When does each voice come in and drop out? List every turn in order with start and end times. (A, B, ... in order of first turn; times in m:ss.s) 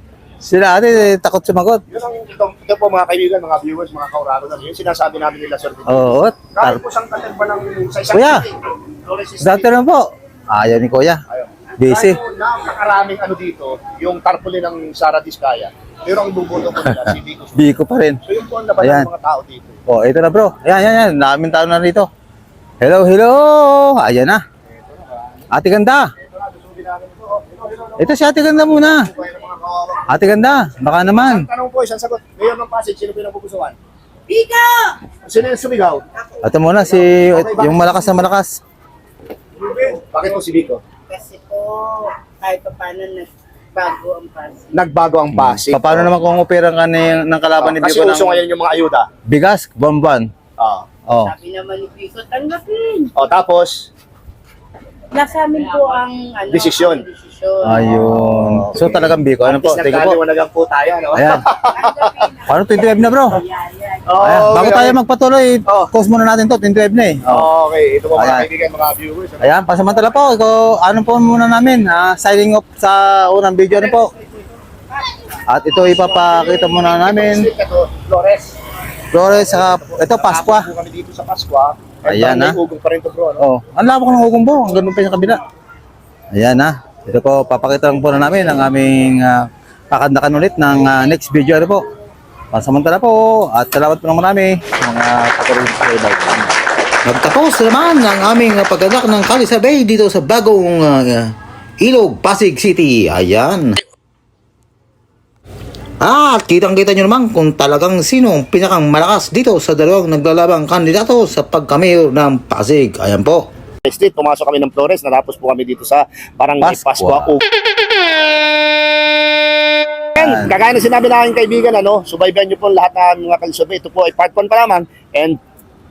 0:00.4-0:01.8 A
0:01.9-0:09.7 B
0:05.9-0:06.8 A
0:08.1-0:08.4 A
0:09.4-0:11.2 A
0:11.3-0:17.7 B
0:11.8-0:12.2 A
0:16.9-0:18.2 A
0:18.2-0:19.8 B
0:18.8-0:19.1 A
0:19.9-0:22.1 A
0:22.8-0:24.4 A
0:24.7-0:25.4 B
0:25.5-0:26.1 A
0:26.2-0:33.8 B
0:28.0-0:29.1 A
0:30.1-0:31.4 A
0:34.3-0:35.0 C
0:35.2-0:36.0 B
0:36.4-0:38.6 A
0:36.9-0:38.0 B
0:39.7-0:40.8 B
0:41.1-0:44.6 C
0:44.7-0:46.1 B
0:45.4-0:48.4 A
0:47.6-0:49.1 B
0:49.3-0:50.3 A
0:50.6-0:50.9 B
0:51.1-0:51.3 A
0:51.3-0:53.1 C
0:53.1-0:53.9 B
0:55.1-0:58.0 C
0:56.5-0:57.1 B
0:57.6-1:00.2 A
0:58.3-1:02.2 B
1:01.1-1:01.4 A
1:01.7-1:04.0 C
1:02.5-1:03.4 A
1:04.0-1:05.0 B
1:04.2-1:07.5 A
1:05.6-1:05.9 B
1:07.3-1:09.6 B
1:08.1-1:08.5 A
1:09.4-1:14.1 A
1:13.7-1:14.1 B
1:15.5-1:17.5 A
1:15.8-1:18.6 B
1:19.1-1:20.7 A
1:19.2-1:23.4 B
1:22.1-1:22.6 A
1:23.4-1:25.4 A
1:26.4-1:31.8 A
1:32.5-1:36.5 A
1:37.0-1:43.8 A
1:46.0-1:53.5 A
1:53.9-1:57.4 B
1:56.6-1:57.4 A
2:00.2-2:05.4 B
2:00.2-2:00.5 A